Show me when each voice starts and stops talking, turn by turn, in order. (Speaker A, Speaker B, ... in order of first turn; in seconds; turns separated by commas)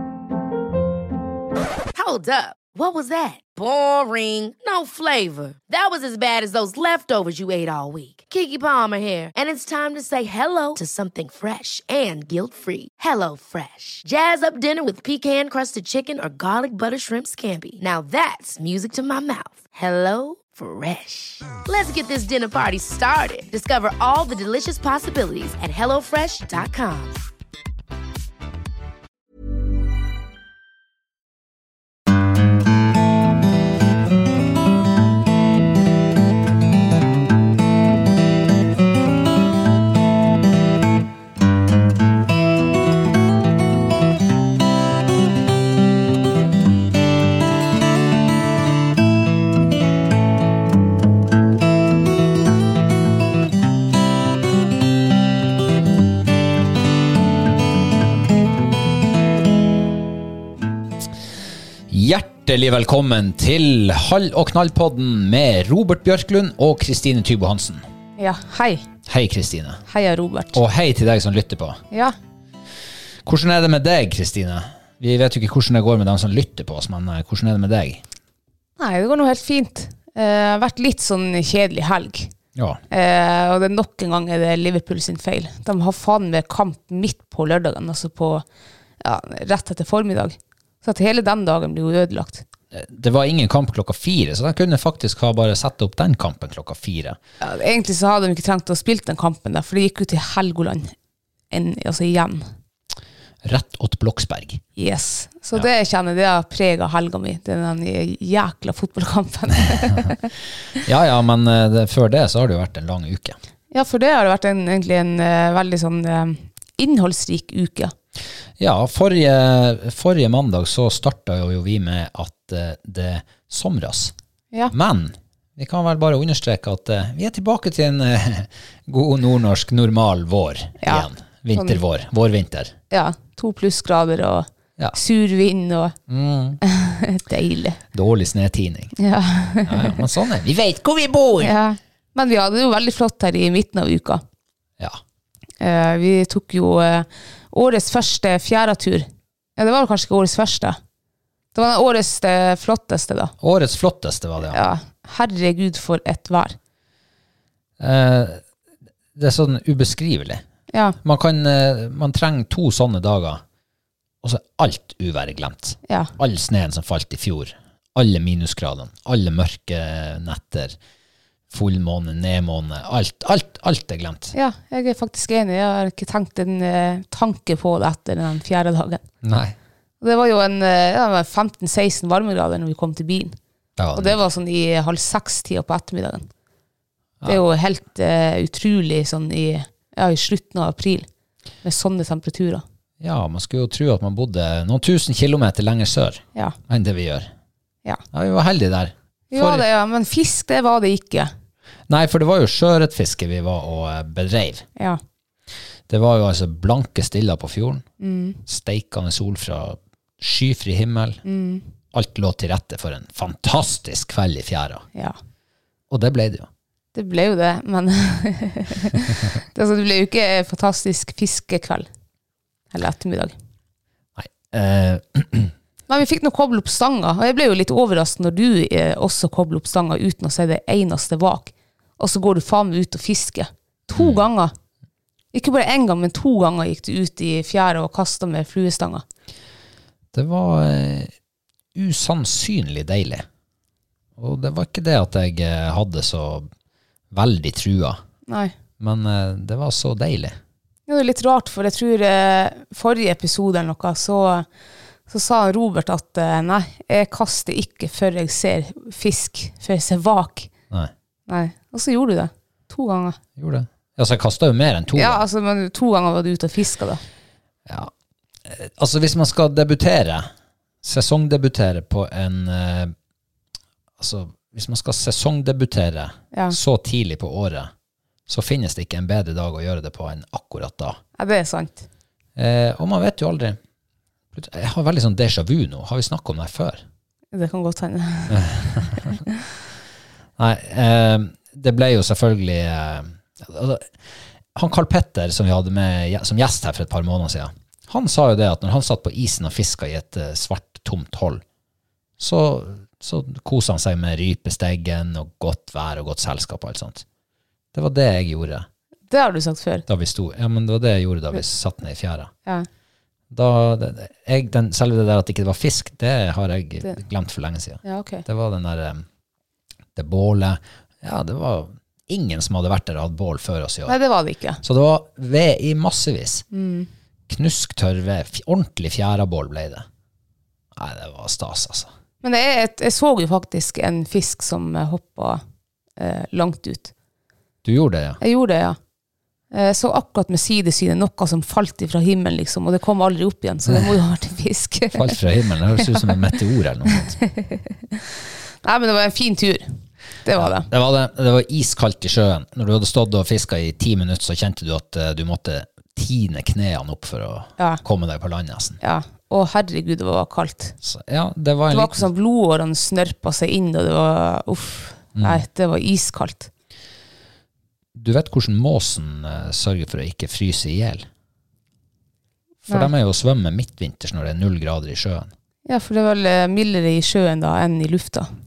Speaker A: 1.9-27.2, Speaker B: 61.9-67.8, Speaker C: 68.2-68.9, Speaker B: 69.1-69.8, Speaker C: 69.9-70.6, Speaker B: 70.5-71.8, Speaker B: 73.2-78.0, Speaker C: 78.8-82.3, Speaker B: 82.5-82.8, Speaker C: 82.9-88.5, Speaker C: 89.0-92.4, Speaker B: 92.7-97.2, Speaker C: 97.4-100.9, Speaker C: 101.5-102.5, Speaker B: 103.4-104.6, Speaker C: 104.8-110.3, Speaker B: 110.8-113.4, Speaker C: 113.7-117.9, Speaker B: 118.6-124.1, Speaker B: 124.7-132.7, Speaker C: 130.8-131.8, Speaker C: 132.9-136.0, Speaker B: 136.1-136.6, Speaker C: 136.6-137.8, Speaker B: 137.9-138.9, Speaker C: 139.0-140.0, Speaker B: 139.7-141.5, Speaker C: 141.4-144.2, Speaker C: 145.6-150.8, Speaker C: 151.6-153.3, Speaker B: 153.4-154.6, Speaker C: 154.5-156.6, Speaker B: 157.8-158.4, Speaker B: 159.2-160.4, Speaker C: 160.7-161.0, Speaker B: 161.0-163.4, Speaker B: 164.2-170.8, Speaker C: 165.9-166.1, Speaker B: 171.5-174.3, Speaker C: 174.3-179.0, Speaker B: 179.2-179.6, Speaker C: 180.0-183.4, Speaker B: 183.8-184.3, Speaker C: 183.9-186.3, Speaker C: 187.2-191.1, Speaker C: 191.6-192.6, Speaker B: 193.0-197.3, Speaker B: 198.1-199.7, Speaker C: 199.3-201.3, Speaker B: 201.9-204.7, Speaker B: 205.9-207.8, Speaker C: 208.0-208.4, Speaker B: 208.5-211.2, Speaker C: 211.2-211.7, Speaker B: 211.9-214.8, Speaker B: 215.9-216.5, Speaker C: 216.9-221.9, Speaker C: 222.7-223.3, Speaker B: 224.2-225.5, Speaker C: 225.9-234.5, Speaker B: 234.0-234.2, Speaker C: 235.3-239.0, Speaker B: 240.1-241.1, Speaker B: 241.8-243.2, Speaker B: 244.2-246.5, Speaker B: 247.1-248.0, Speaker C: 248.3-248.5, Speaker B: 248.8-250.4, Speaker C: 250.9-254.5, Speaker C: 255.1-260.5, Speaker C: 261.3-263.2, Speaker B: 263.4-265.2, Speaker C: 264.9-267.0, Speaker B: 267.7-267.9, Speaker B: 268.5-270.3, Speaker B: 270.8-272.9, Speaker B: 274.0-277.7, Speaker B: 278.3-281.0, Speaker C: 281.2-281.9, Speaker B: 282.4-283.6, Speaker B: 284.3-286.8, Speaker C: 287.3-289.2, Speaker B: 288.3-289.0, Speaker B: 290.4-293.9, Speaker B: 294.6-301.4, Speaker B: 302.2-307.0, Speaker B: 307.7-308.7, Speaker C: 309.1-309.9, Speaker B: 309.9-312.3, Speaker B: 313.3-319.1, Speaker C: 317.8-318.3, Speaker B: 320.0-324.0, Speaker C: 323.9-324.6, Speaker B: 324.6-326.4, Speaker C: 326.5-326.9, Speaker B: 327.3-329.9, Speaker B: 330.8-331.9, Speaker C: 332.2-335.4, Speaker C: 336.0-336.9, Speaker B: 337.6-338.2, Speaker C: 338.2-338.8, Speaker C: 339.5-345.2, Speaker B: 344.9-347.2, Speaker C: 345.8-346.1, Speaker C: 347.2-348.0, Speaker C: 348.6-349.7, Speaker C: 350.2-350.7, Speaker B: 350.4-358.8, Speaker C: 358.8-360.8, Speaker B: 360.8-362.1, Speaker C: 361.7-366.5, Speaker B: 365.1-365.4, Speaker B: 367.9-371.1, Speaker B: 372.6-375.3, Speaker C: 375.7-378.3